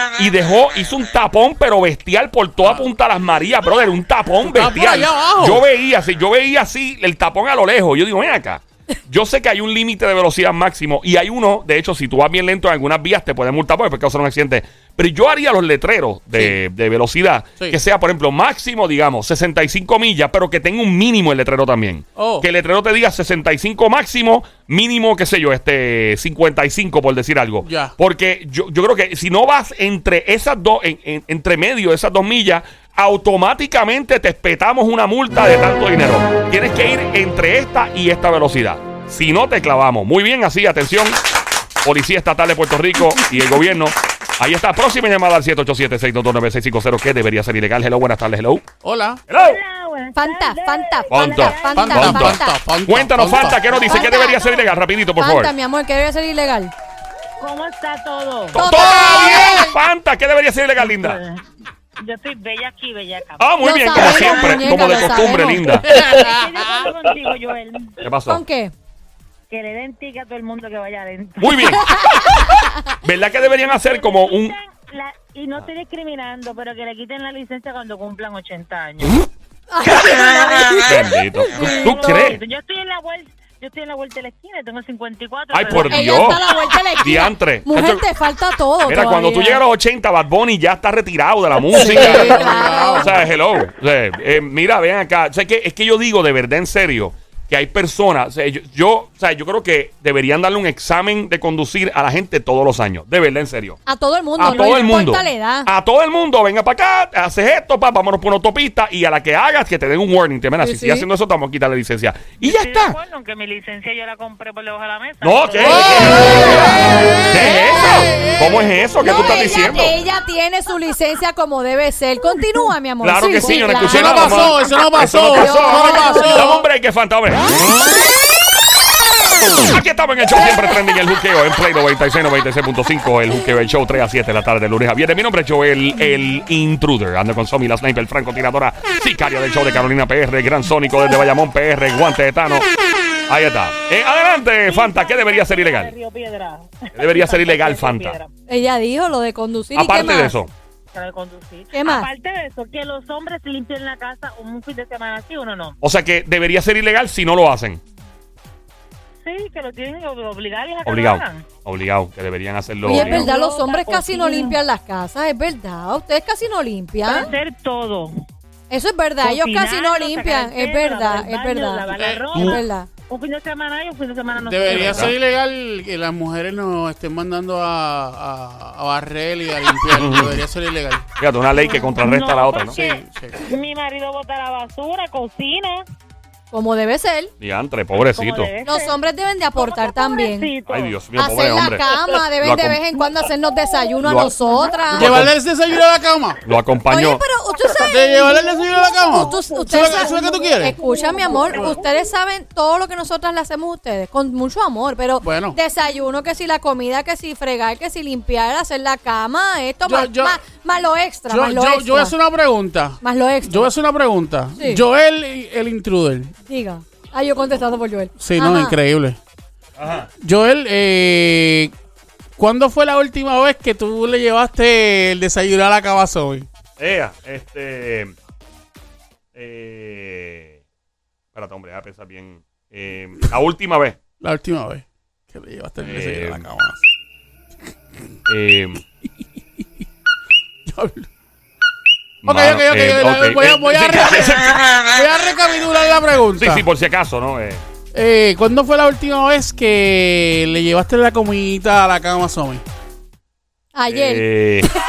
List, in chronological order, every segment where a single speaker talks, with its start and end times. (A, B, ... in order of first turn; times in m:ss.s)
0:00.2-0:41.2 A
0:04.4-0:05.6 B
0:16.3-0:16.6 B
0:22.2-0:22.5 B
0:27.6-0:28.0 B
0:41.8-0:48.6 A
0:48.8-0:49.2 B
0:49.3-0:49.6 A
0:49.3-0:51.8 C
0:50.2-0:52.6 D
0:51.1-0:55.5 A
0:51.7-0:53.8 B
0:53.7-0:54.7 C
0:53.8-0:54.4 D
0:55.2-0:56.7 D
0:57.4-0:58.7 C
0:58.5-1:01.2 A
0:58.6-0:59.7 D
1:00.8-1:01.4 C
1:02.0-1:08.0 C
1:03.4-1:05.9 A
1:03.6-1:05.7 D
1:05.7-1:06.6 B
1:08.0-1:08.4 A
1:08.3-1:08.7 D
1:09.5-1:11.9 C
1:11.4-1:12.2 A
1:11.8-1:12.7 D
1:13.0-1:14.6 A
1:13.6-1:19.2 C
1:19.7-1:22.4 D
1:20.9-1:22.4 A
1:21.6-1:26.4 C
1:25.5-1:26.4 A
1:25.7-1:29.6 D
1:27.0-1:28.0 A
1:28.9-1:43.8 A
1:31.7-1:33.1 B
1:31.8-1:33.1 D
1:43.9-1:45.7 D
1:44.4-1:53.0 A
1:50.6-1:51.1 D
1:52.4-1:56.4 C
1:55.2-2:00.0 A
1:55.8-1:57.3 D
1:55.8-1:58.6 B
1:59.0-2:04.5 D
2:03.0-2:07.8 A
2:03.4-2:03.8 C
2:03.8-2:06.6 B
2:05.3-2:06.6 D
2:09.6-2:22.7 A
2:23.3-2:25.9 A
2:24.6-2:28.3 C
2:27.0-2:28.2 A
2:28.5-2:30.4 D
2:29.8-2:30.5 A
2:30.9-2:35.8 C
2:31.7-2:32.1 D
2:35.8-2:37.8 A
2:39.2-2:41.5 C
2:40.8-2:43.3 A
2:42.8-2:47.3 D
2:42.9-2:44.6 C
2:47.0-2:48.1 C
2:48.7-2:52.9 D
2:49.2-2:55.1 C
2:52.0-2:52.4 B
2:52.4-2:52.6 A
2:54.4-3:01.0 B
2:54.8-2:55.2 A
2:59.9-3:00.4 A
3:01.2-3:02.8 A
3:01.6-3:05.8 C
3:02.6-3:03.5 B
3:06.5-3:07.3 D
3:07.4-3:08.5 A
3:08.1-3:09.0 C
3:08.6-3:10.5 D
3:09.6-3:11.0 C
3:10.7-3:11.8 A
3:11.2-3:15.2 D
3:12.4-3:12.8 A
3:14.0-3:14.3 A
3:14.9-3:16.4 B
3:15.0-3:15.3 A
3:16.4-3:17.2 A
3:16.9-3:18.4 D
3:17.8-3:20.8 B
3:18.4-3:21.8 C
3:19.1-3:32.1 D
3:21.5-3:21.8 B
3:25.2-3:25.6 B
3:29.8-3:30.4 B
3:31.3-3:36.3 B
3:33.0-3:33.7 D
3:34.6-3:34.8 D
3:36.5-3:38.8 D
3:38.2-3:39.2 B
3:39.8-3:40.1 A
3:40.2-3:41.7 B
3:42.4-3:46.5 B
3:46.8-3:48.2 A
3:49.4-3:50.6 A
3:51.3-3:54.0 A
3:54.2-3:56.9 B
3:55.8-3:56.5 A
3:58.3-3:58.8 A
4:00.7-4:01.1 B
4:02.2-4:04.6 A
4:02.2-4:06.7 B
4:06.4-4:07.6 A
4:07.9-4:12.6 B
4:13.7-4:14.2 D
4:13.9-4:14.7 A